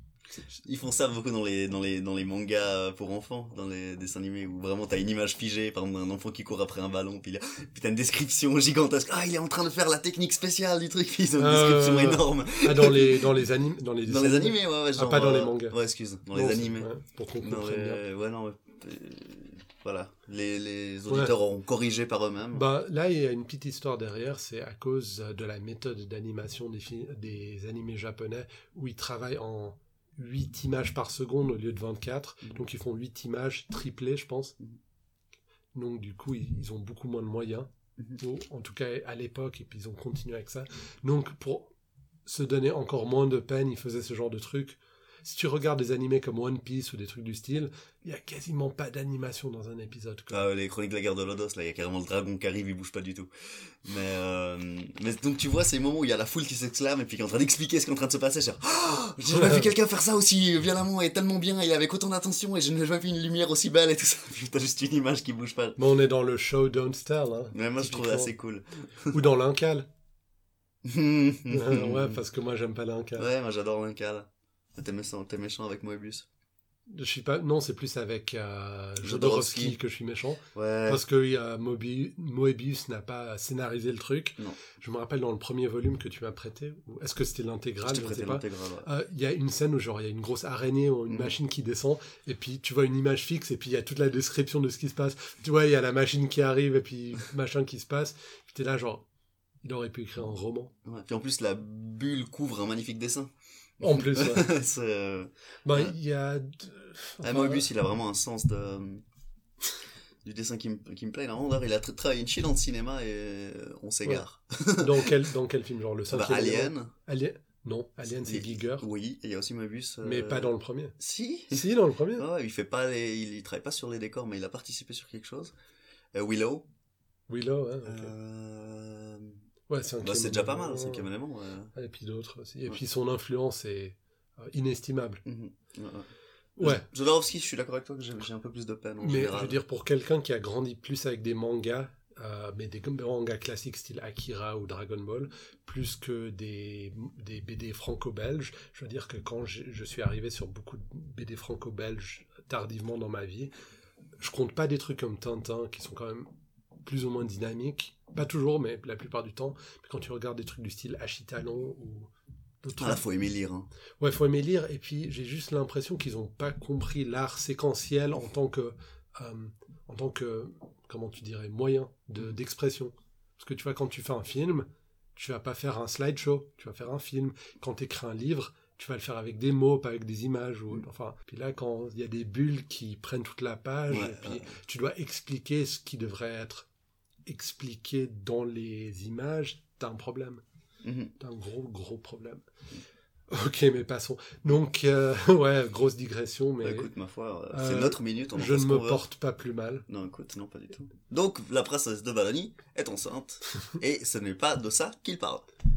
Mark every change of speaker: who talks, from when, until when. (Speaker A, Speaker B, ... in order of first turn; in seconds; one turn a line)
Speaker A: 0.4-13.4
Speaker B: 11.4-15.8
Speaker A: 14.1-22.7
Speaker B: 16.3-18.0
Speaker B: 22.5-34.6
Speaker B: 35.8-41.7
Speaker B: 42.3-50.5
Speaker A: 50.3-65.8
Speaker B: 59.3-59.7
Speaker B: 65.8-68.3
Speaker A: 67.5-69.2
Speaker B: 69.1-69.9
Speaker A: 70.8-72.2
Speaker B: 71.5-73.3
Speaker A: 73.2-76.3
Speaker B: 76.9-99.0
Speaker A: 79.0-79.8
Speaker A: 80.5-81.0
Speaker A: 87.8-88.9
Speaker A: 91.1-91.3
Speaker B: 99.6-100.7
Speaker A: 100.8-106.0
Speaker B: 103.8-104.5
Speaker B: 105.7-107.7
Speaker A: 107.2-109.0
Speaker A: 110.2-115.1
Speaker B: 114.8-118.9
Speaker A: 116.1-116.9
Speaker A: 118.2-125.5
Speaker B: 120.0-121.0
Speaker B: 121.5-122.3
Speaker A: 126.2-126.7
Speaker B: 127.3-128.1
Speaker A: 127.9-129.4
Speaker B: 129.7-131.1
Speaker A: 130.0-131.7
Speaker B: 131.8-135.2
Speaker A: 135.2-136.1
Speaker B: 136.6-136.9
Speaker A: 136.6-139.6
Speaker B: 139.0-153.5
Speaker B: 154.2-156.3
Speaker B: 156.8-162.1
Speaker B: 162.6-163.0
Speaker A: 162.8-163.7
Speaker B: 164.0-186.7
Speaker A: 183.9-184.5
Speaker B: 187.3-190.4
Speaker A: 190.8-191.1
Speaker B: 191.2-192.4
Speaker B: 193.3-196.9
Speaker A: 196.6-199.0
Speaker B: 197.5-199.8
Speaker A: 199.9-205.5